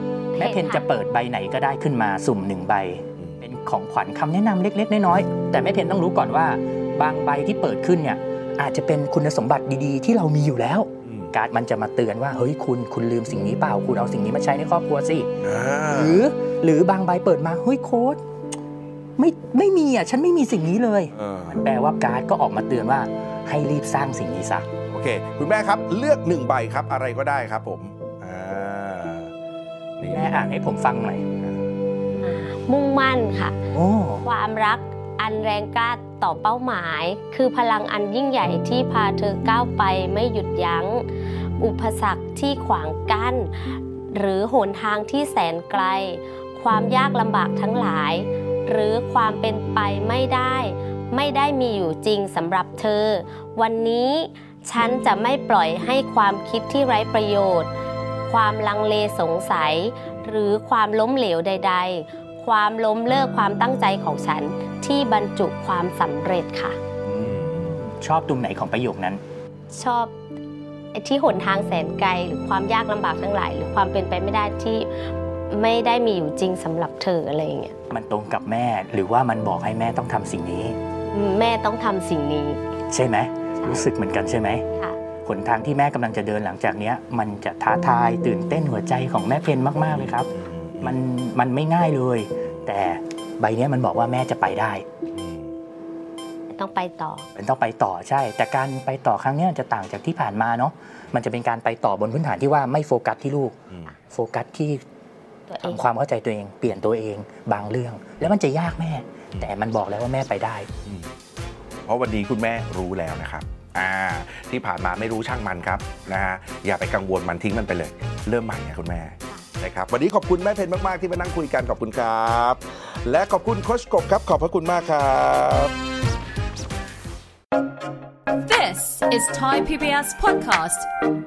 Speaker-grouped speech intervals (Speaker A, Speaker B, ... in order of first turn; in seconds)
Speaker A: 0.3-0.8, 32.2-33.6, 34.2-41.1, 41.6-57.7, 58.3-66.8, 69.7-70.1, 70.9-77.7, 81.1-82.6, 83.6-83.8, 96.5-97.3, 105.5-105.8
Speaker B: 0.4-18.2, 19.2-24.7, 30.1-31.3, 33.7-34.2, 67.0-69.2, 77.9-80.8, 82.9-84.6, 85.2-94.8, 97.3-104.8, 105.6-110.7
Speaker C: 3.2-3.4, 11.0-11.3, 15.4-16.2, 21.1-21.6, 24.9-29.3, 30.0-30.4, 67.2-67.7, 89.9-91.0, 95.1-95.5, 103.7-104.0, 110.8-111.1, 111.8-125.7
Speaker D: 128.4-130.9